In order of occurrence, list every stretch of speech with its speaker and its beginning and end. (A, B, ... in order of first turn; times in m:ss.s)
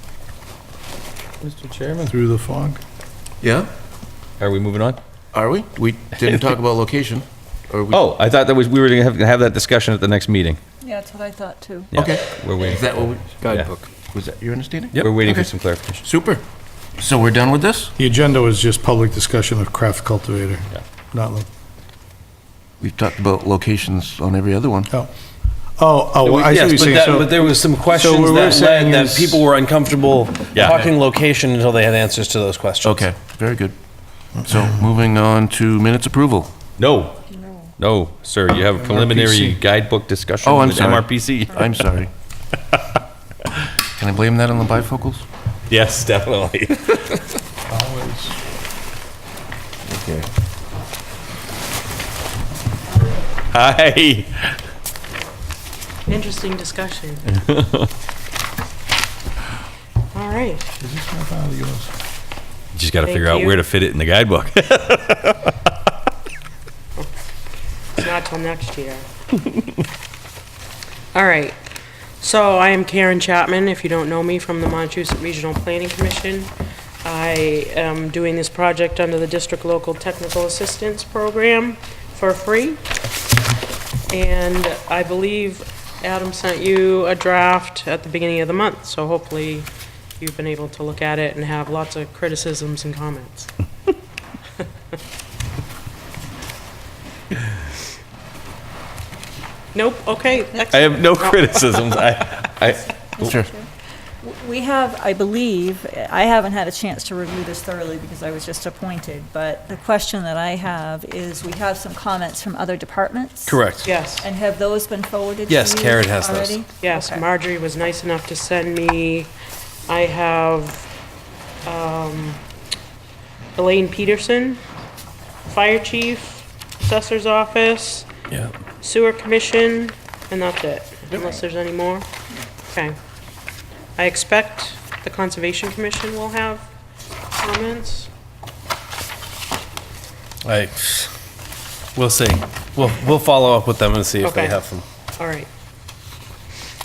0:01.4-0:02.1 A
0:02.0-0:02.8 B
0:03.4-0:03.7 C
0:04.4-0:05.0 A
0:05.3-0:08.0 C
0:07.9-0:10.6 A
0:10.8-0:11.9 D
0:11.9-0:13.8 A
0:12.0-0:16.4 C
0:15.0-0:16.0 A
0:17.0-0:18.0 C
0:18.0-0:21.5 B
0:22.8-0:24.9 C
0:25.8-0:29.5 B
0:26.2-0:33.1 E
0:30.5-0:30.9 A
0:32.8-0:33.8 C
0:34.4-0:36.5 C
0:36.8-0:37.2 A
0:37.8-0:41.5 A
0:38.7-0:39.6 B
0:40.4-0:42.1 C
0:44.0-0:45.2 C
0:45.7-0:47.2 A
0:47.7-0:48.3 B
0:49.8-0:50.3 C
0:53.5-0:54.6 A
0:56.1-0:57.2 F
0:57.6-0:57.8 A
1:00.1-1:00.6 F
1:00.8-1:01.9 B
1:02.8-1:05.5 A
1:03.0-1:03.6 F
1:08.0-1:09.0 F
1:11.1-1:11.6 F
1:12.2-1:16.5 F
1:17.0-1:22.8 F
1:24.1-1:29.7 F
1:30.2-1:33.5 F
1:39.8-1:41.6 F
1:40.7-1:43.3 A
1:43.0-1:43.7 D
1:43.2-1:43.5 C
1:44.2-1:53.6 D
1:53.5-1:53.9 E
1:53.8-1:54.3 F
1:54.2-1:57.2 D
1:55.5-1:56.6 E
1:56.8-1:59.3 F
1:59.9-2:00.9 F
2:01.6-2:02.4 F
2:03.6-2:04.6 F
2:05.5-2:08.1 F
2:08.8-2:12.1 F
2:14.0-2:16.6 F
2:17.4-2:18.1 F
2:20.4-2:21.1 E
2:22.0-2:24.8 E
2:24.2-2:24.6 F
2:25.2-2:25.5 F